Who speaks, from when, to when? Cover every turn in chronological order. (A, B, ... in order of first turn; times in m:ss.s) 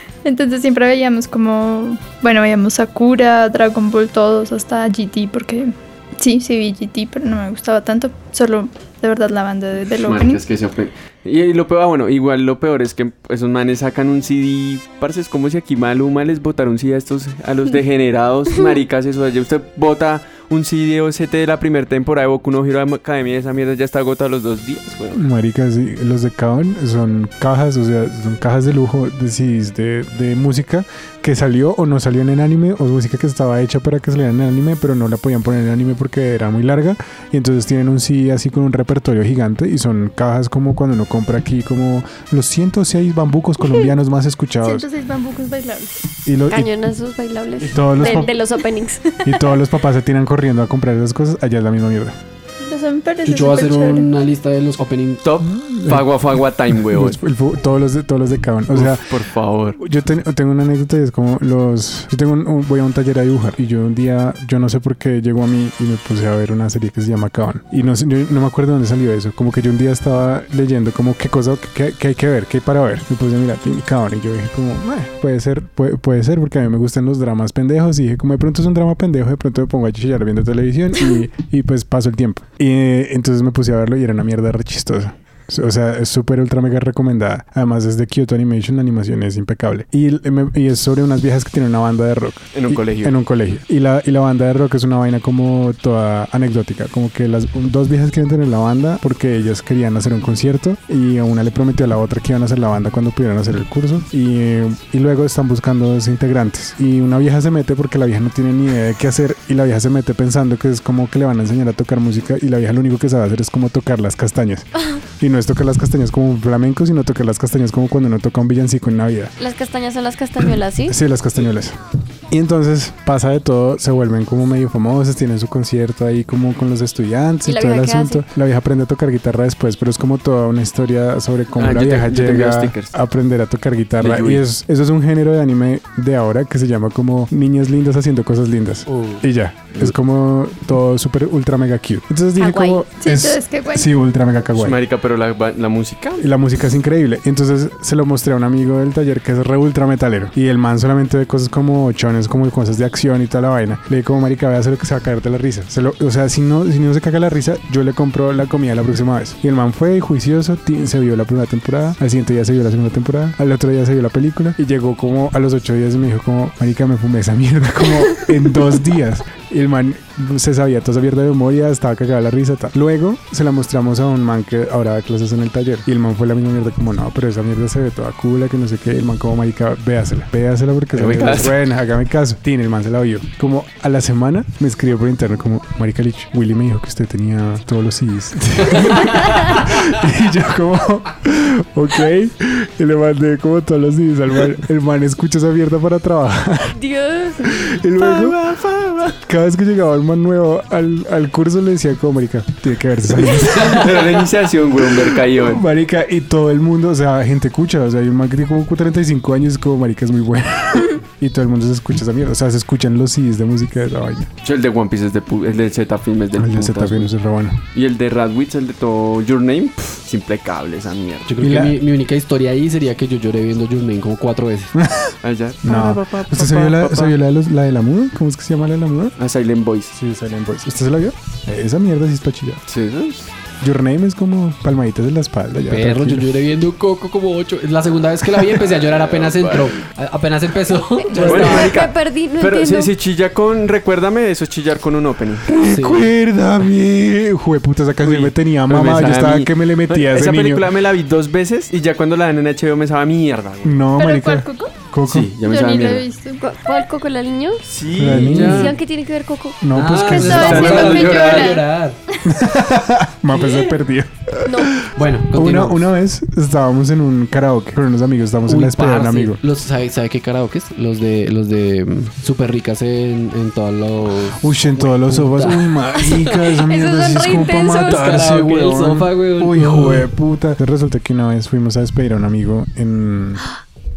0:00.2-0:10.4 A
0:10.0-0:25.2 B
0:25.1-0:44.9 C
0:44.6-0:46.0 A
0:46.2-0:46.7 C
0:46.5-0:49.0 D
0:47.6-0:48.3 C
0:48.1-0:48.5 A
0:49.1-0:49.6 A
0:49.2-0:52.2 C
0:52.6-0:54.1 A
0:53.2-0:55.2 E
0:55.2-0:57.2 B
0:55.4-0:59.2 C
0:58.7-0:59.8 B
0:59.7-1:59.3 C
1:32.5-1:33.2 B
1:59.4-2:01.0 D
2:00.9-2:24.8 C
2:07.4-2:08.2 D
2:11.6-2:12.9 B
2:14.0-2:14.4 B
2:18.9-2:19.2 E
2:22.4-2:22.9 D
2:22.9-2:23.9 A
2:24.6-2:26.3 B
2:26.2-3:16.8 C
3:00.9-3:01.6 B
3:16.7-3:17.5 D
3:17.4-3:18.4 C
3:18.0-3:19.2 B
3:19.2-3:24.2 C
3:23.5-3:25.6 B
3:24.8-3:34.3 C
3:34.4-3:37.1 B
3:36.4-3:37.6 C
3:37.7-3:41.3 B
3:41.3-3:44.7 E
3:41.4-3:41.8 C
3:44.7-3:49.2 C
3:45.2-3:47.2 B
3:49.2-3:49.9 B
3:49.9-3:52.6 C
3:52.7-3:53.3 B
3:53.6-3:56.3 C
3:55.7-4:01.7 E
3:58.7-3:59.8 B
4:01.2-4:01.6 C
4:01.2-4:05.6 B
4:01.3-4:02.9 D
4:05.5-4:10.7 C
4:05.6-4:06.0 E
4:08.0-4:13.9 B
4:13.6-4:15.3 C
4:14.0-4:14.8 A
4:15.1-4:16.1 B
4:15.4-4:16.4 A
4:16.4-4:17.6 D
4:17.7-4:18.8 B
4:18.0-4:18.8 C
4:18.2-4:19.6 D
4:19.6-4:20.9 C
4:19.7-4:22.0 E
4:20.2-4:22.2 A
4:20.3-4:21.6 B
4:22.2-4:29.4 C
4:23.3-4:23.7 E
4:24.4-4:24.8 D
4:24.9-4:25.9 E
4:28.5-4:36.1 E
4:34.4-4:43.4 C
4:36.0-4:38.2 D
4:37.6-4:40.1 E